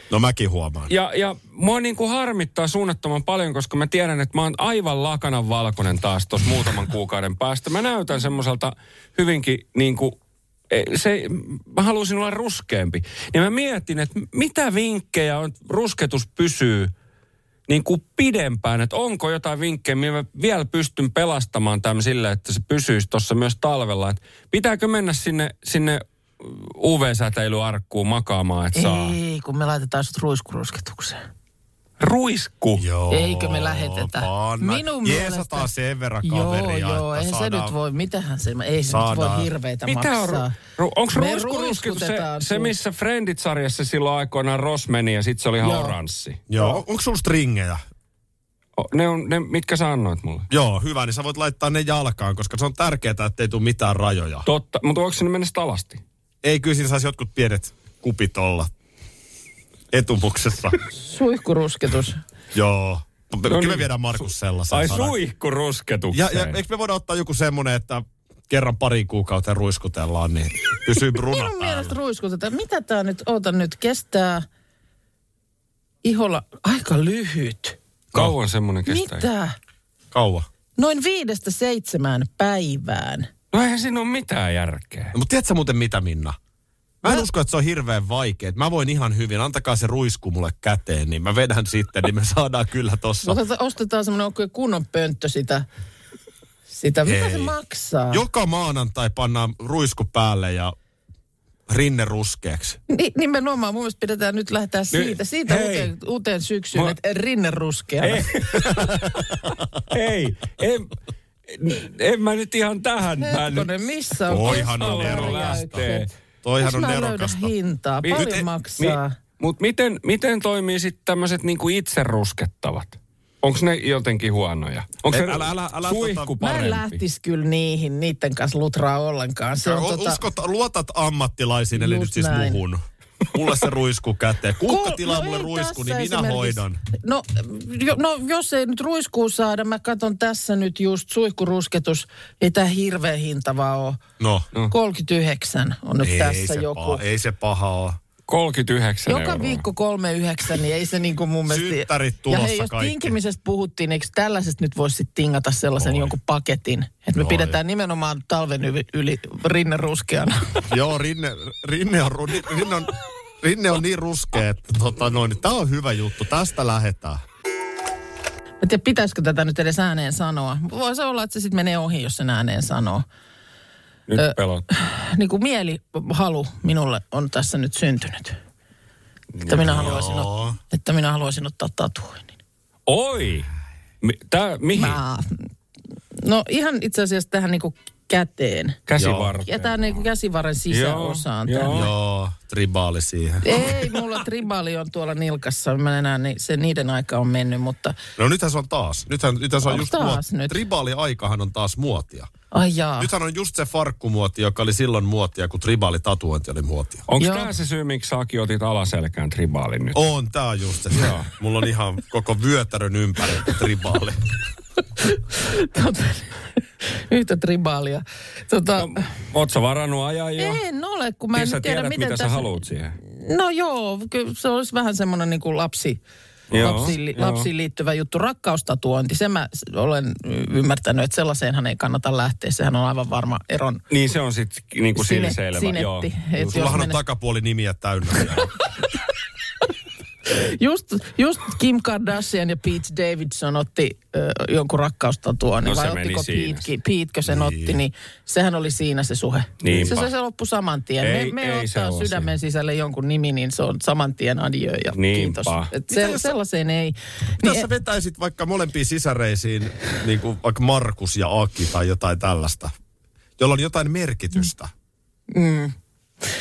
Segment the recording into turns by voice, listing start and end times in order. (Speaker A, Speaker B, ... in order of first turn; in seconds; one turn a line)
Speaker A: 0.1-0.9
Speaker B: 0.9-10.2
Speaker B: 10.7-16.9
Speaker B: 17.7-29.2
Speaker C: 28.8-31.2
Speaker B: 32.0-32.8
Speaker A: 32.8-37.7
Speaker C: 33.1-35.7
Speaker C: 36.2-40.5
Speaker A: 38.9-39.5
Speaker B: 39.9-46.5
Speaker C: 41.1-42.7
Speaker C: 45.6-46.0
Speaker A: 46.5-47.8
Speaker B: 48.8-50.5
Speaker A: 50.5-54.5
Speaker B: 54.5-56.0
Speaker A: 56.4-58.7
Speaker A: 59.9-60.8
Speaker C: 60.9-62.2
Speaker A: 62.5-65.1
Speaker B: 63.5-66.6
Speaker A: 66.1-71.9
Speaker C: 71.1-74.5
Speaker C: 76.0-77.8
Speaker B: 78.1-79.3
Speaker C: 78.9-79.6
Speaker A: 80.1-80.5
Speaker C: 80.8-83.3
Speaker B: 83.5-85.2
Speaker A: 85.1-86.4
Speaker A: 87.0-93.4
Speaker C: 93.2-95.7
Speaker C: 96.7-98.2
Speaker A: 97.1-97.5
Speaker A: 98.1-100.8
Speaker A: 101.7-102.8
Speaker C: 102.9-108.3
Speaker B: 104.9-105.9
Speaker B: 108.0-110.9
Speaker A: 108.6-109.4
Speaker B: 111.5-113.7
Speaker C: 113.2-119.2
Speaker B: 114.3-116.1
Speaker A: 114.3-115.9
Speaker A: 116.4-117.5
Speaker A: 118.1-118.5
Speaker B: 118.8-127.0
Speaker A: 125.1-126.4
Speaker C: 126.4-130.2
Speaker A: 129.6-136.8
Speaker C: 131.7-132.6
Speaker C: 134.7-144.0
Speaker A: 144.2-144.5
Speaker C: 144.7-147.0
Speaker A: 146.0-148.0
Speaker B: 148.3-149.7
Speaker C: 149.1-160.6
Speaker A: 151.5-153.2
Speaker A: 155.8-156.1
Speaker A: 157.2-157.6
Speaker A: 160.7-167.2
Speaker C: 168.6-173.1
Speaker B: 174.1-174.7
Speaker C: 174.2-178.4
Speaker B: 179.4-179.9
Speaker C: 179.5-182.4
Speaker A: 179.6-180.6
Speaker B: 182.9-183.5
Speaker B: 184.0-185.0
Speaker C: 184.7-185.3
Speaker C: 186.2-188.8
Speaker B: 188.9-190.0
Speaker A: 189.0-189.3
Speaker C: 189.4-191.9
Speaker B: 190.7-191.9
Speaker A: 191.7-193.6
Speaker C: 193.4-198.0
Speaker A: 198.2-202.3
Speaker C: 199.6-200.6
Speaker C: 202.5-203.1
Speaker A: 203.0-207.1
Speaker B: 207.1-210.0
Speaker C: 207.2-207.5
Speaker A: 209.9-214.2
Speaker B: 210.9-211.3
Speaker C: 215.0-219.1
Speaker B: 218.8-220.6
Speaker C: 220.4-222.5
Speaker B: 221.3-223.0
Speaker C: 223.1-226.0
Speaker B: 226.5-227.5
Speaker A: 226.5-226.9
Speaker C: 226.6-233.8
Speaker B: 233.9-236.8
Speaker C: 235.0-237.0
Speaker A: 236.5-238.5
Speaker C: 240.3-257.7
Speaker B: 245.7-246.7
Speaker A: 247.3-247.8
Speaker B: 249.6-250.1
Speaker B: 251.0-252.3
Speaker B: 254.9-255.7
Speaker A: 255.9-256.4
Speaker A: 257.4-262.7
Speaker A: 263.4-264.7
Speaker C: 265.3-265.8